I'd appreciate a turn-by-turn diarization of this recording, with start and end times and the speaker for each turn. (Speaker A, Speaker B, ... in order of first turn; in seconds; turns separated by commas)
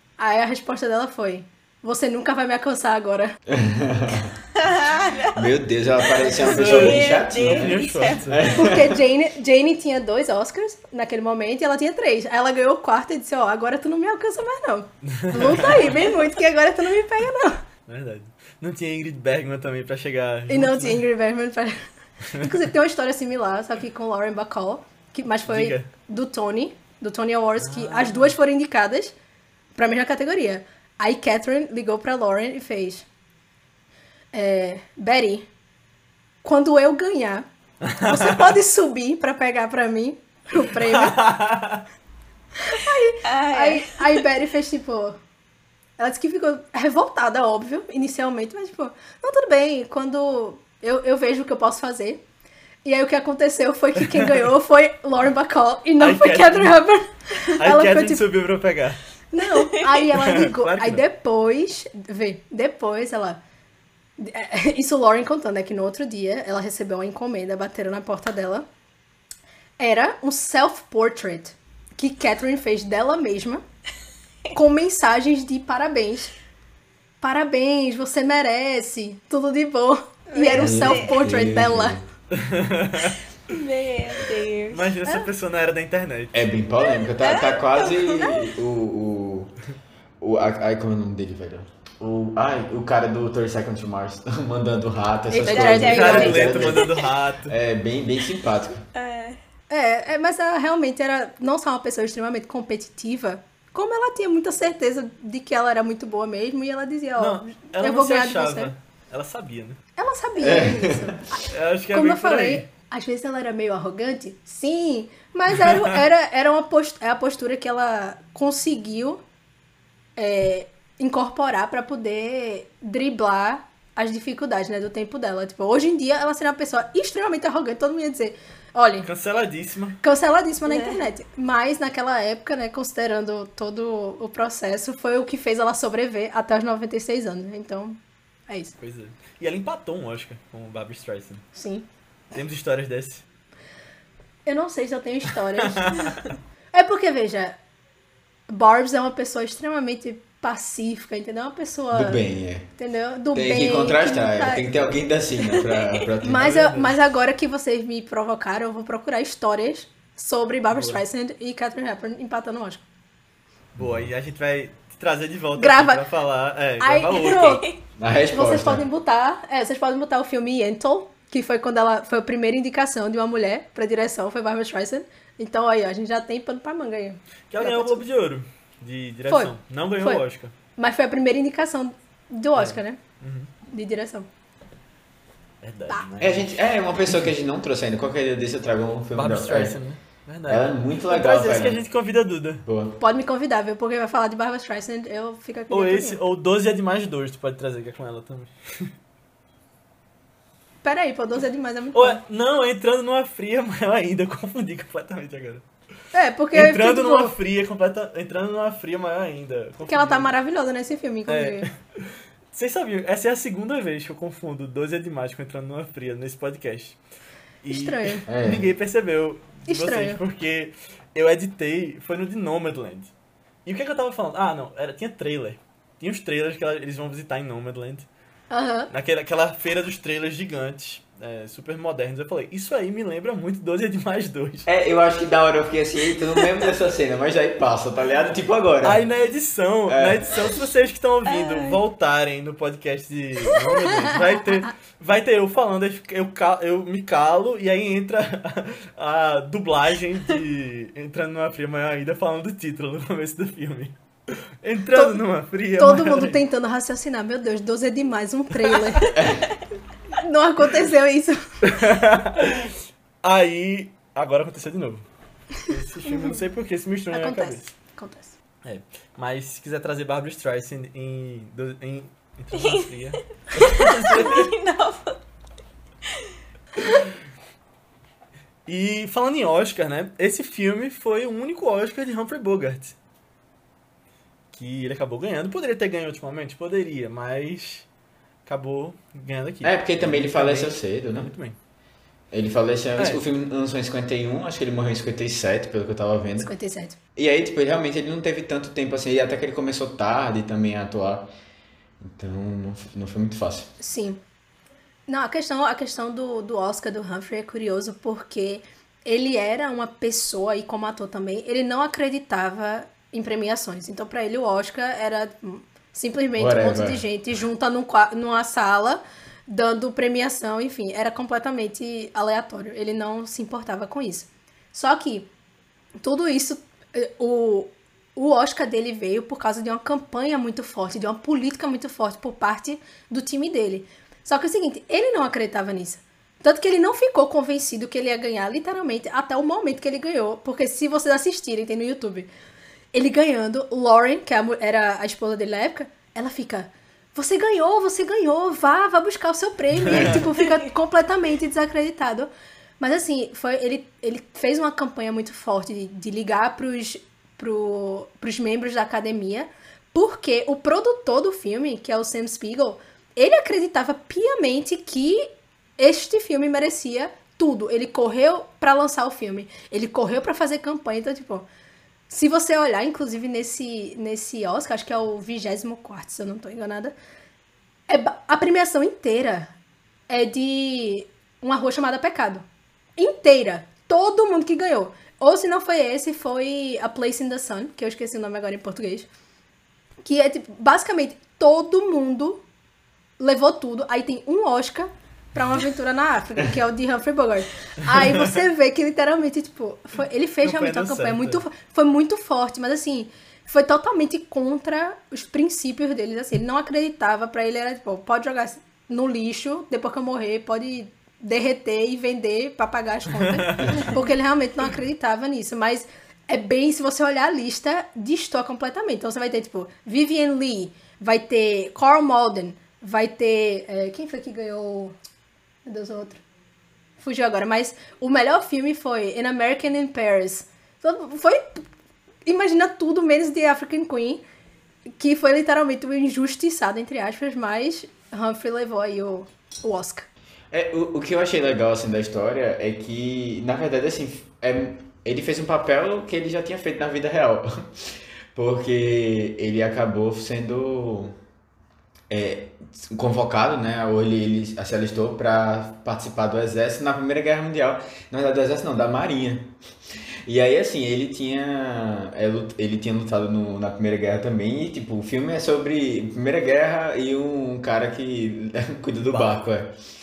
Speaker A: 0.2-3.4, Speaker B: 3.5-4.3, Speaker C: 4.6-5.5, Speaker B: 5.2-9.0, Speaker C: 6.0-8.5, Speaker D: 6.3-8.4, Speaker A: 8.5-17.6, Speaker D: 15.1-16.1, Speaker D: 17.9-21.1, Speaker A: 20.5-21.8, Speaker D: 22.3-22.6, Speaker A: 22.4-29.1, Speaker D: 25.5-25.9, Speaker D: 27.6-28.3, Speaker A: 29.8-33.0, Speaker A: 34.3-35.5, Speaker A: 36.4-37.5, Speaker D: 37.9-38.3, Speaker A: 38.0-41.2, Speaker D: 40.8-41.8, Speaker A: 42.6-45.2, Speaker C: 43.2-44.2, Speaker A: 46.0-52.2, Speaker A: 52.8-58.2, Speaker D: 56.0-56.8, Speaker D: 57.6-59.0, Speaker A: 59.3-63.4, Speaker D: 60.1-61.0, Speaker A: 64.2-68.7, Speaker A: 69.8-73.6, Speaker A: 74.5-76.3, Speaker A: 77.2-82.0, Speaker C: 80.3-81.2, Speaker B: 80.5-82.0, Speaker D: 82.3-83.2, Speaker C: 83.5-85.2, Speaker D: 84.7-86.5, Speaker B: 86.3-89.5, Speaker C: 87.1-88.4, Speaker B: 90.2-98.8, Speaker A: 95.3-96.6, Speaker C: 95.5-97.1, Speaker D: 95.8-97.5, Speaker C: 98.9-99.4, Speaker A: 99.7-108.7, Speaker D: 107.2-109.8, Speaker A: 110.0-119.2, Speaker B: 110.4-111.2, Speaker D: 111.5-112.6, Speaker D: 115.7-115.9, Speaker A: 120.2-129.1, Speaker D: 129.0-130.0, Speaker A: 130.0-138.7, Speaker C: 130.7-131.0, Speaker D: 138.8-141.4, Speaker A: 141.5-141.8, Speaker D: 142.3-143.2, Speaker A: 144.4-146.1, Speaker D: 145.7-146.1, Speaker A: 146.7-147.6, Speaker A: 148.5-152.2, Speaker B: 151.9-152.7, Speaker A: 152.8-154.9, Speaker B: 153.3-156.5, Speaker C: 155.5-156.0, Speaker A: 156.2-162.8, Speaker D: 156.3-156.9, Speaker D: 160.7-161.0, Speaker B: 163.8-164.1, Speaker D: 163.8-167.6, Speaker A: 165.6-166.0, Speaker A: 166.8-167.7, Speaker C: 167.1-167.8, Speaker B: 168.0-168.8, Speaker A: 168.3-178.0, Speaker D: 177.5-180.5, Speaker A: 179.3-180.2, Speaker A: 180.8-183.0, Speaker D: 182.6-183.5, Speaker A: 183.7-184.3, Speaker D: 185.6-187.2, Speaker B: 186.2-189.8, Speaker D: 189.1-192.6, Speaker B: 190.5-191.8, Speaker B: 192.7-193.0, Speaker A: 193.0-196.2, Speaker D: 195.7-198.9, Speaker A: 200.8-202.2, Speaker D: 201.9-205.6, Speaker A: 206.1-207.3, Speaker D: 206.5-210.3, Speaker A: 209.9-211.7, Speaker D: 211.3-217.0, Speaker D: 217.6-223.1, Speaker A: 217.7-218.2, Speaker B: 218.3-218.7, Speaker A: 219.7-220.2, Speaker D: 223.7-228.1, Speaker A: 228.5-228.9, Speaker D: 228.9-234.7, Speaker B: 234.7-239.0, Speaker D: 238.8-256.4, Speaker B: 239.9-240.6, Speaker C: 241.2-241.8, Speaker A: 254.9-255.2, Speaker A: 255.8-259.1, Speaker A: 260.1-261.7, Speaker D: 261.6-265.1, Speaker D: 265.6-267.7, Speaker C: 266.1-266.4, Speaker A: 267.1-268.3, Speaker D: 268.6-274.5, Speaker C: 272.5-275.2, Speaker D: 278.7-282.9, Speaker D: 284.5-287.9, Speaker D: 288.4-291.6, Speaker B: 289.6-291.3, Speaker B: 292.3-296.5, Speaker D: 293.0-293.2, Speaker A: 296.4-297.0, Speaker B: 297.1-301.3, Speaker B: 302.0-303.7, Speaker A: 303.8-304.2, Speaker A: 305.1-325.3, Speaker B: 316.4-317.0, Speaker A: 326.0-342.3, Speaker A: 342.9-365.3, Speaker D: 349.8-350.2, Speaker A: 365.8-371.5, Speaker A: 372.1-376.9, Speaker A: 377.9-379.5, Speaker A: 380.1-382.4, Speaker A: 383.0-389.1, Speaker A: 390.0-392.4, Speaker A: 393.2-424.9, Speaker D: 400.4-401.4, Speaker D: 413.1-413.9, Speaker A: 425.6-426.2, Speaker A: 427.0-431.6, Speaker A: 432.2-434.2, Speaker A: 435.0-440.1, Speaker B: 440.5-451.1, Speaker B: 452.1-459.6, Speaker B: 460.2-469.8, Speaker D: 469.1-469.4